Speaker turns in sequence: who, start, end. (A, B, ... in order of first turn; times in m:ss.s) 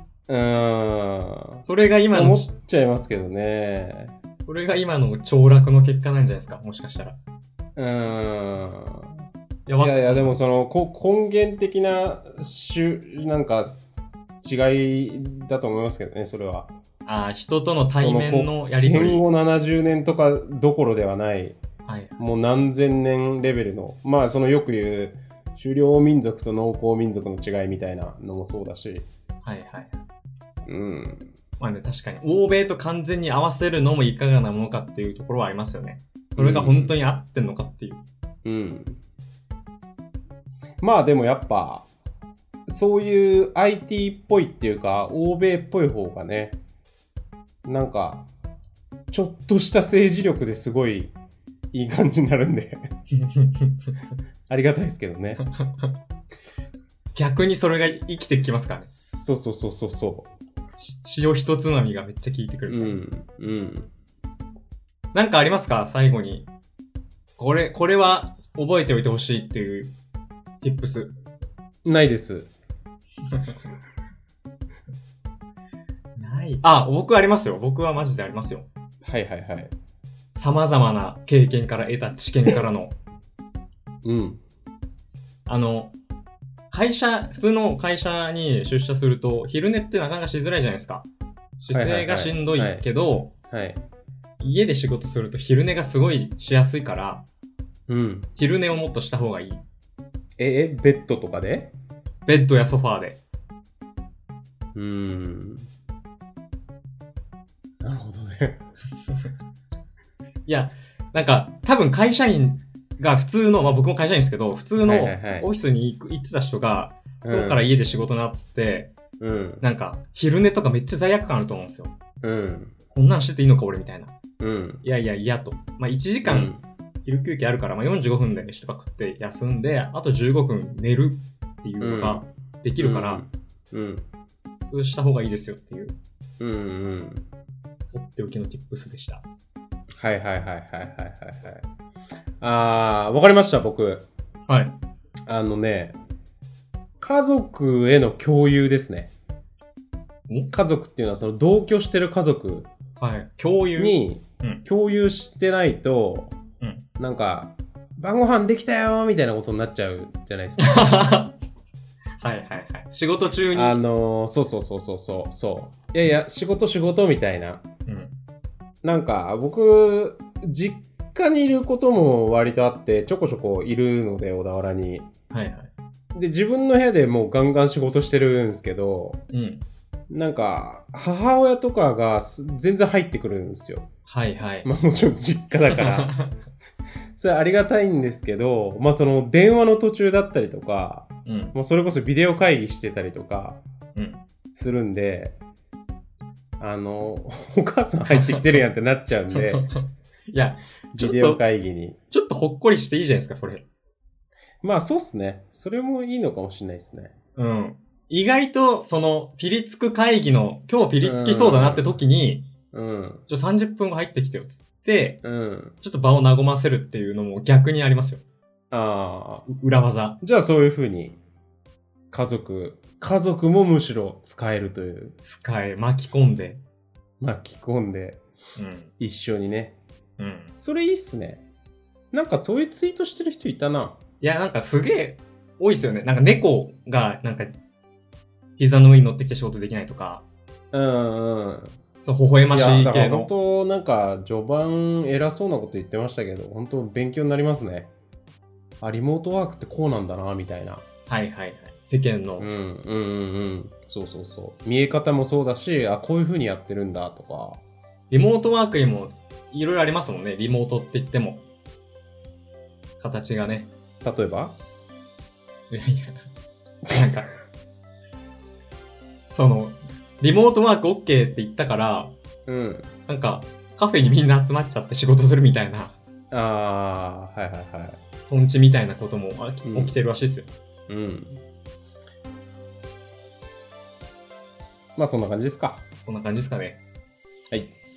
0:00.3-0:04.1 A
0:01.6-0:02.5 B
0:04.4-0:07.2 B
0:07.8-0:09.2 A
0:09.6-0:10.4 B
0:09.8-0:13.8 A
0:14.4-0:16.7 A
0:17.0-0:19.2 B
0:17.9-0:21.6 A
0:21.8-0:22.2 B
0:22.2-0:29.1 A
0:29.4-0:30.0 B
0:30.6-0:31.3 A
0:31.6-0:38.0 B
0:36.3-0:37.0 A
0:38.4-0:39.0 A
0:40.8-0:41.9 A
0:42.7-0:46.6 A
0:47.6-0:48.3 A
0:49.1-0:51.1 A
0:51.7-0:52.9 A
0:53.2-0:53.7 B
0:54.5-0:55.4 A
0:55.6-0:55.9 B
0:57.1-0:58.9 B
0:58.8-1:00.3 A
1:01.0-1:03.0 B
1:02.7-1:03.9 A
1:05.1-1:06.4 B
1:07.4-1:09.9 B
1:10.6-1:11.1 B
1:11.8-1:12.5 A
1:13.3-1:13.6 B
1:16.2-1:18.6 B
1:19.0-1:19.7 A
1:20.3-1:23.0 B
1:24.0-1:24.4 A
1:25.4-1:25.9 B
1:26.7-1:31.0 B
1:31.6-1:33.3 B
1:31.7-1:32.8 A
1:33.5-1:33.8 A
1:34.4-1:37.2 B
1:37.9-1:38.3 A
1:38.4-1:39.6 B
1:40.4-1:41.7 A
1:42.2-1:43.2 B
1:44.7-1:45.7 A
1:47.8-1:48.6 A
1:50.4-1:58.9 B
1:54.8-1:55.5 A
1:57.2-1:57.6 A
1:59.2-1:59.6 A
1:59.6-2:01.9 B
2:02.2-2:02.7 A
2:02.9-2:04.1 B
2:04.4-2:04.8 A
2:04.8-2:06.5 B
2:06.2-2:06.6 A
2:07.0-2:13.2 B
2:11.8-2:12.3 A
2:12.8-2:14.0 A
2:14.6-2:16.0 B
2:16.4-2:17.2 A
2:17.9-2:19.2 B
2:20.0-2:21.6 A
2:22.4-2:24.0 A
2:24.5-2:24.7 B
2:25.3-2:26.0 A
2:27.0-2:29.1 A
2:30.5-2:32.7 A
2:33.0-2:34.6 B
2:33.8-2:36.3 A
2:37.0-2:41.0 A
2:40.6-2:41.3 B
2:42.2-2:43.8 B
2:43.5-2:47.6 A
2:47.9-2:48.1 B
2:48.8-2:55.1 A
2:55.3-2:55.7 B
2:56.1-2:59.2 A
2:59.3-2:59.6 B
3:00.1-3:03.9 A
3:04.0-3:04.7 B
3:04.6-3:06.1 A
3:05.7-3:06.3 B
3:07.2-3:13.6 A
3:11.2-3:11.5 B
3:13.9-3:14.2 B
3:14.5-3:15.4 A
3:16.6-3:19.7 A
3:18.1-3:18.6 B
3:19.3-3:21.4 B
3:20.9-3:22.0 A
3:22.1-3:23.6 B
3:24.6-3:27.1 A
3:27.4-3:32.4 B
3:31.0-3:32.0 A
3:32.7-3:33.2 A
3:33.3-3:35.2 B
3:35.2-3:35.7 A
3:35.8-3:38.2 B
3:38.7-3:39.5 A
3:39.5-3:40.2 B
3:40.2-3:41.2 A
3:42.1-3:45.2 A
3:45.2-3:46.6 B
3:47.2-3:48.2 A
3:48.6-3:48.9 B
3:49.0-3:49.8 A
3:50.2-3:50.5 B
3:50.6-3:51.4 A
3:52.1-3:54.0 A
3:54.2-3:57.5 B
3:58.6-4:00.2 B
4:00.7-4:01.7 A
4:02.0-4:03.3 B
4:02.5-4:07.9 A
4:08.8-4:10.8 A
4:11.1-4:12.5 B
4:12.4-4:17.6 A
4:18.1-4:21.4 B
4:23.0-4:23.7 B
4:24.0-4:24.6 A
4:25.7-4:26.2 B
4:26.9-4:27.3 B
4:29.3-4:32.1 B
4:32.5-4:32.9 A
4:33.1-4:36.0 B
4:36.3-4:38.0 A
4:38.3-4:40.5 B
4:39.7-4:39.9 A
4:40.9-4:41.4 A
4:45.0-4:45.8 A
4:46.0-4:46.8 B